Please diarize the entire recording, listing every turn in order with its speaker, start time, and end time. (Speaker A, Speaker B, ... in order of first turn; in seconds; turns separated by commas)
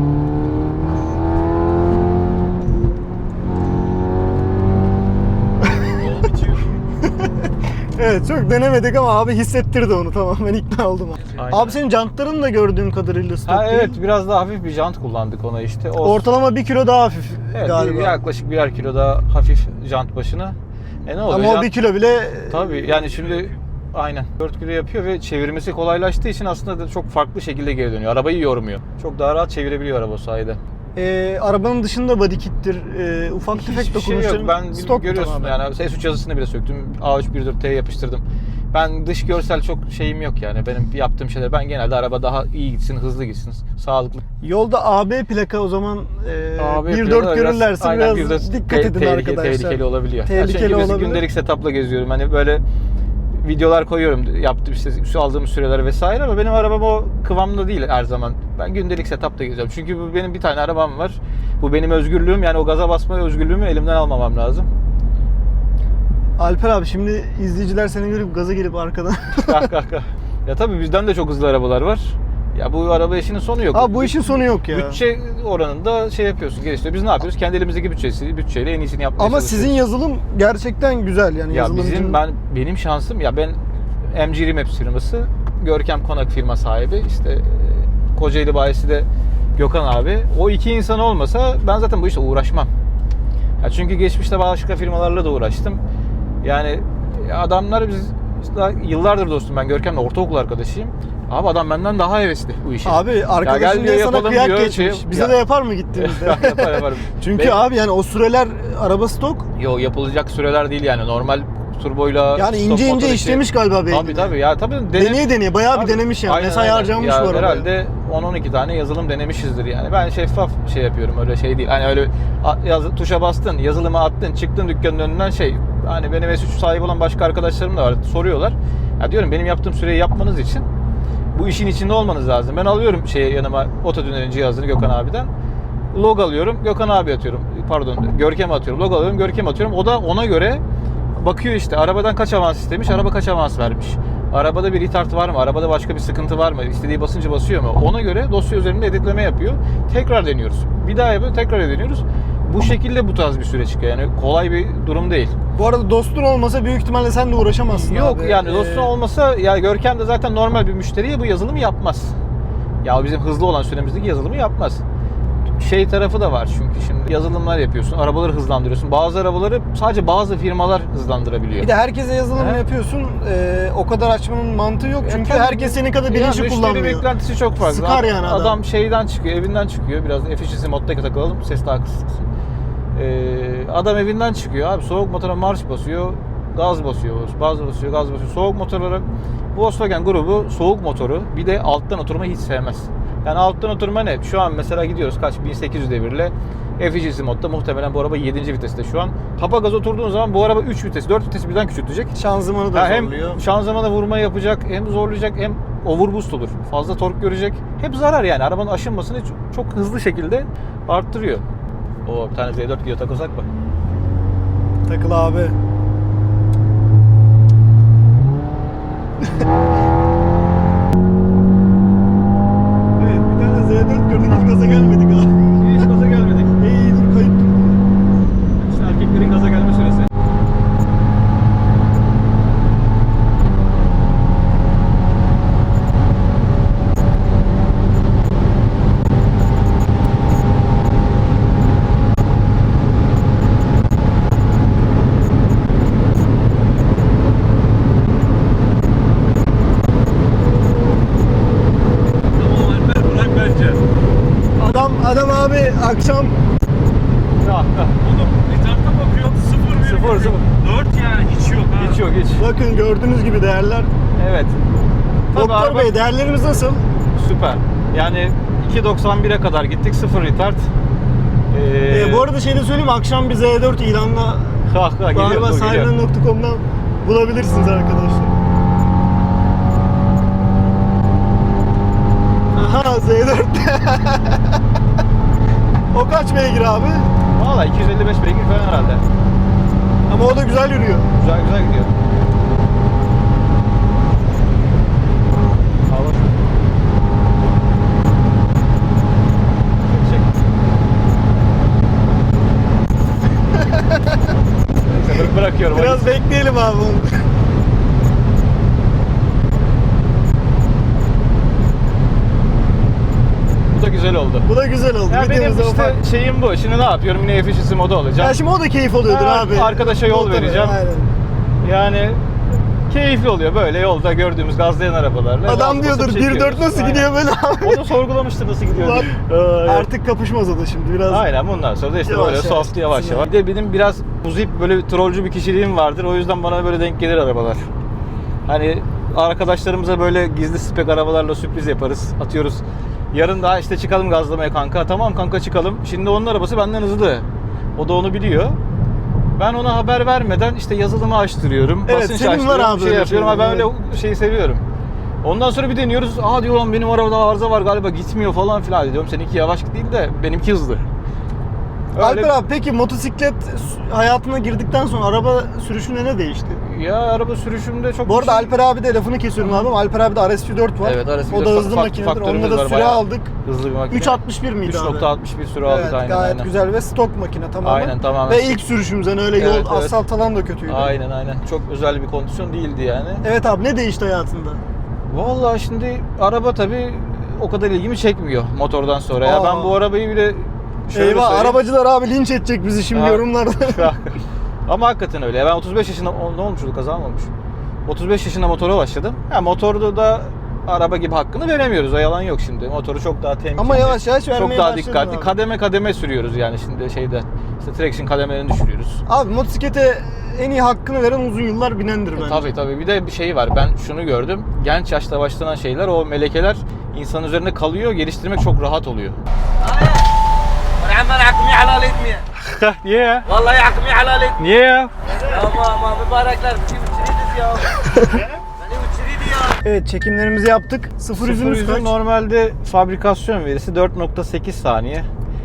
Speaker A: 5.6-6.0, Speaker B: 5.9-6.7, Speaker A: 7.9-14.0, Speaker C: 11.3-11.8, Speaker C: 13.5-16.2, Speaker A: 16.0-18.2, Speaker C: 17.5-21.7, Speaker A: 21.2-22.9, Speaker C: 22.5-30.6, Speaker B: 23.0-23.6, Speaker A: 30.9-35.5, Speaker C: 33.5-44.2, Speaker A: 44.4-51.2, Speaker C: 46.6-52.6, Speaker C: 53.4-64.7, Speaker A: 66.4-69.7, Speaker C: 69.4-79.8, Speaker A: 73.7-75.0, Speaker A: 79.2-82.2, Speaker C: 81.5-92.7, Speaker C: 93.6-95.8, Speaker C: 96.4-105.4, Speaker A: 102.8-109.5, Speaker C: 105.9-107.6, Speaker C: 109.5-130.7, Speaker A: 112.3-114.3, Speaker A: 114.9-117.7, Speaker C: 131.3-135.3, Speaker C: 135.9-140.6, Speaker C: 141.2-155.3, Speaker A: 155.6-158.9, Speaker C: 157.7-162.1, Speaker C: 162.8-164.8, Speaker C: 165.6-171.7, Speaker A: 171.6-177.0, Speaker C: 172.3-172.6, Speaker C: 175.0-182.3, Speaker A: 177.6-178.6, Speaker C: 182.9-202.2, Speaker A: 202.1-203.4, Speaker C: 202.7-211.4, Speaker C: 212.0-213.4, Speaker A: 214.8-215.6, Speaker A: 223.0-225.9, Speaker C: 225.6-226.6, Speaker A: 226.6-227.8, Speaker C: 228.6-230.1, Speaker B: 252.3-253.8, Speaker A: 254.6-256.4, Speaker C: 257.4-257.9, Speaker B: 258.0-262.0, Speaker C: 259.8-260.5, Speaker C: 261.8-262.4, Speaker A: 262.4-263.9, Speaker C: 264.1-264.6, Speaker C: 265.3-265.9, Speaker A: 265.3-266.8, Speaker C: 267.1-270.6, Speaker C: 271.5-272.3, Speaker A: 271.9-278.3, Speaker C: 274.6-275.9, Speaker A: 282.5-284.6, Speaker A: 285.9-287.1, Speaker C: 287.4-289.0, Speaker A: 290.1-291.1, Speaker C: 291.1-291.9, Speaker C: 295.9-296.3, Speaker C: 299.9-300.3, Speaker A: 303.5-304.2, Speaker C: 304.9-306.2, Speaker A: 305.0-307.2, Speaker C: 313.7-314.5, Speaker A: 314.4-315.9, Speaker C: 315.1-318.4, Speaker A: 318.2-321.1, Speaker C: 319.1-320.8, Speaker C: 321.6-322.2, Speaker C: 322.9-327.1, Speaker A: 325.4-327.8, Speaker C: 327.6-329.9, Speaker A: 328.7-331.3, Speaker C: 331.1-337.6, Speaker A: 332.0-333.3, Speaker C: 338.5-348.6, Speaker C: 349.4-354.6, Speaker A: 351.9-353.7, Speaker C: 355.2-360.8, Speaker C: 361.9-362.3, Speaker A: 362.0-366.6, Speaker C: 366.6-368.6, Speaker A: 368.1-373.3, Speaker C: 370.8-376.5, Speaker A: 373.9-375.1, Speaker A: 375.6-380.9, Speaker C: 377.6-378.6, Speaker C: 379.4-380.0, Speaker C: 380.7-383.2, Speaker A: 383.2-384.6, Speaker C: 385.1-391.6, Speaker A: 389.2-389.8, Speaker A: 390.9-393.9, Speaker C: 392.9-397.3, Speaker C: 397.9-409.0, Speaker A: 403.6-405.3, Speaker A: 409.1-412.5, Speaker C: 412.1-419.2, Speaker D: 420.8-422.2, Speaker C: 422.3-423.3, Speaker D: 423.3-424.4, Speaker C: 424.4-424.9, Speaker D: 425.1-427.8, Speaker B: 425.3-425.6, Speaker A: 427.9-428.2, Speaker D: 428.6-429.6, Speaker A: 429.6-431.9, Speaker C: 431.1-435.1